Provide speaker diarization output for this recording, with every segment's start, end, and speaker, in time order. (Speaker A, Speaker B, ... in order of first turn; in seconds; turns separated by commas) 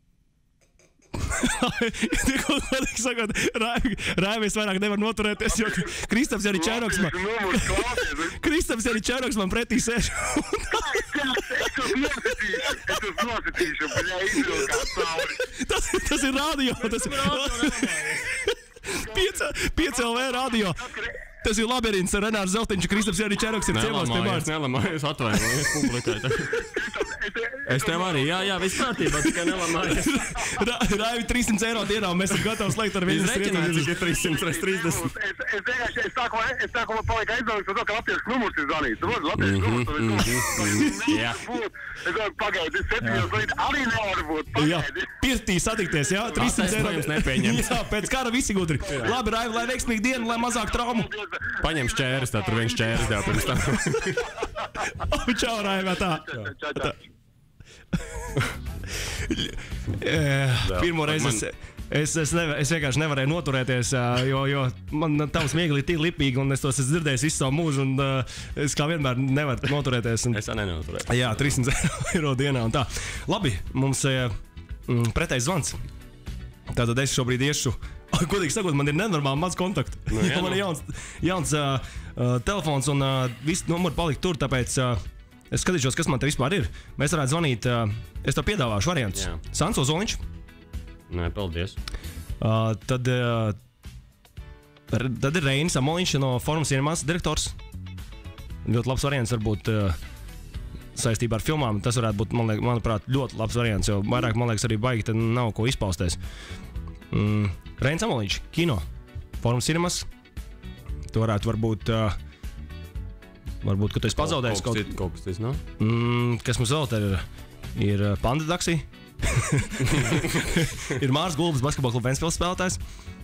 Speaker A: 1.2-13.2, Speaker B: 5.5-5.8, Speaker B: 6.5-8.4, Speaker B: 10.8-15.4, Speaker A: 13.9-20.9, Speaker C: 16.7-18.3, Speaker B: 18.9-21.1, Speaker A: 21.4-24.5, Speaker C: 23.7-26.7, Speaker B: 26.6-28.7, Speaker C: 27.7-30.3, Speaker A: 29.7-33.9, Speaker C: 33.0-35.1, Speaker B: 34.0-45.1, Speaker C: 39.4-41.5, Speaker A: 44.6-51.1, Speaker C: 46.4-47.8, Speaker C: 48.9-49.2, Speaker B: 50.2-51.6, Speaker C: 51.6-54.3, Speaker B: 52.6-53.7, Speaker A: 55.0-57.0, Speaker C: 56.3-56.5, Speaker B: 56.3-57.0, Speaker A: 58.2-58.5, Speaker A: 59.0-70.4, Speaker C: 60.6-61.5, Speaker C: 70.3-71.6, Speaker A: 71.1-74.3, Speaker A: 74.9-75.8, Speaker A: 76.7-90.2, Speaker C: 80.1-80.6, Speaker C: 89.2-89.4, Speaker C: 91.1-91.8, Speaker A: 92.4-93.6, Speaker A: 94.9-97.6, Speaker A: 98.7-100.0, Speaker A: 101.0-106.2, Speaker A: 107.1-108.8, Speaker A: 109.4-110.1, Speaker A: 111.1-112.2, Speaker A: 113.6-114.9, Speaker C: 114.2-115.6, Speaker A: 115.8-122.8